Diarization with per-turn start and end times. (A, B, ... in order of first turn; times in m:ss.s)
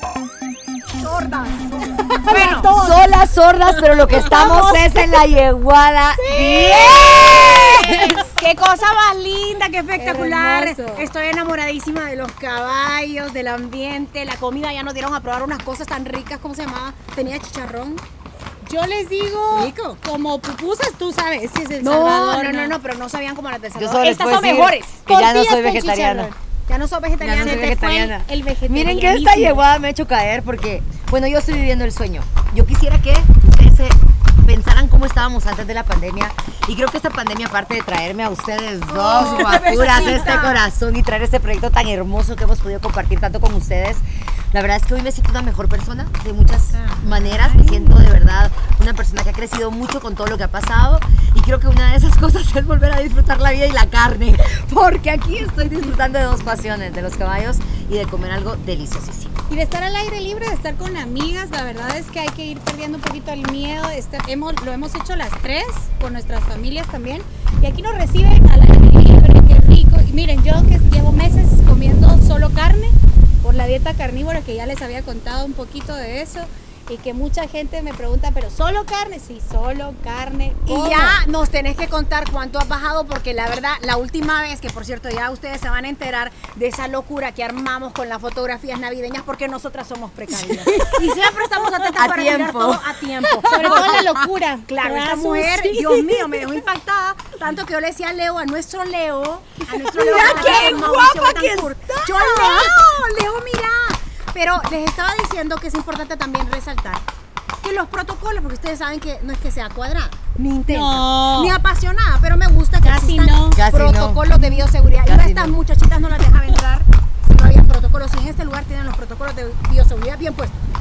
0:00.9-0:02.7 A
0:01.8-0:05.3 B
0:02.6-0:08.1 C
0:04.1-0:04.5 A
0:06.2-0:08.3 B
0:06.5-0:18.0 A
0:10.0-0:11.1 B
0:18.6-0:22.8 B
0:19.5-0:20.0 A
0:21.8-0:25.0 A
0:23.8-0:26.3 C
0:25.1-0:26.4 B
0:26.7-0:27.9 A
0:27.2-0:59.3 C
0:27.4-0:29.7 B
0:38.9-0:40.7 A
0:40.0-0:40.3 B
0:46.7-0:47.9 A
0:59.5-1:21.2 B
1:20.7-1:34.0 A
1:30.3-1:34.3 C
1:33.4-1:36.6 B
1:34.7-1:47.0 A
1:39.8-1:40.9 B
1:39.9-1:42.8 C
1:47.6-2:00.6 A
1:50.7-1:51.6 B
1:52.8-1:53.6 B
1:53.6-1:54.3 C
1:54.3-1:54.7 B
1:55.0-1:55.6 C